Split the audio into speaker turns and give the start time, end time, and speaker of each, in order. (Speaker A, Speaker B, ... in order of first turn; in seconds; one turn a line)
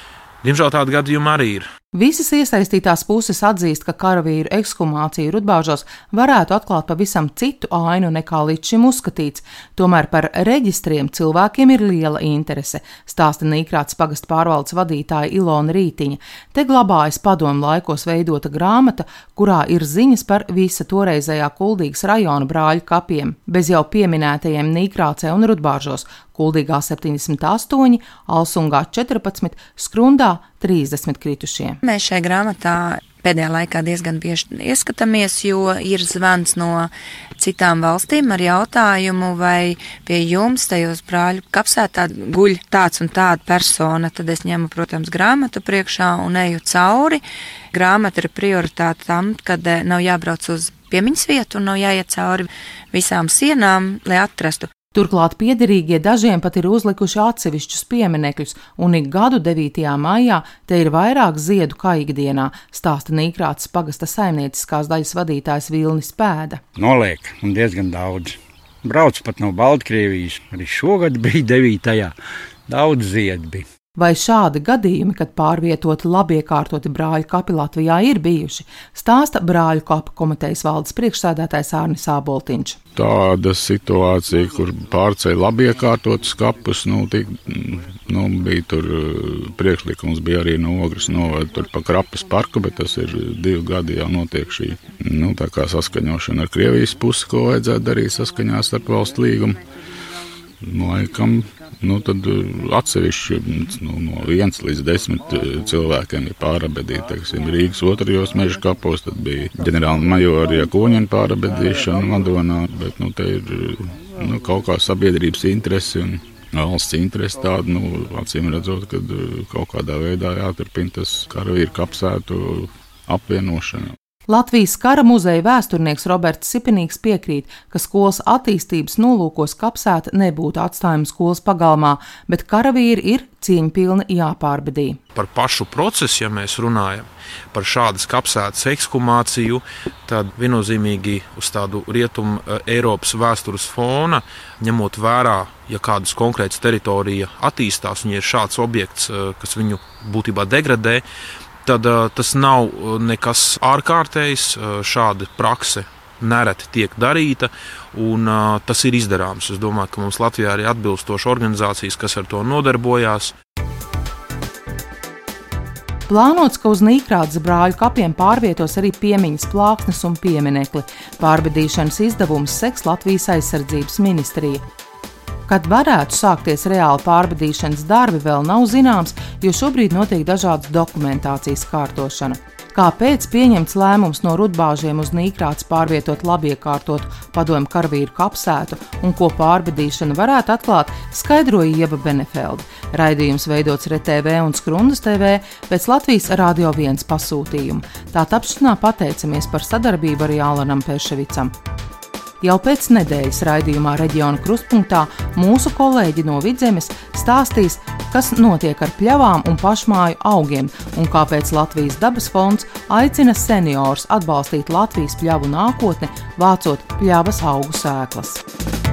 Speaker A: 0.4-1.7
Speaker B: 1.9-31.8
Speaker C: 31.8-47.2
Speaker C: 47.7-54.7
Speaker B: 54.9-66.6
Speaker D: 66.8-72.2
Speaker D: 72.7-73.7
Speaker B: 74.0-82.8
Speaker E: 83.0-99.6
Speaker E: 100.6-123.9
Speaker B: 124.3-135.0
Speaker A: 135.2-151.0
Speaker A: 151.7-163.3
Speaker B: 166.1-174.6
Speaker B: 175.5-201.5
Speaker B: 202.4-218.4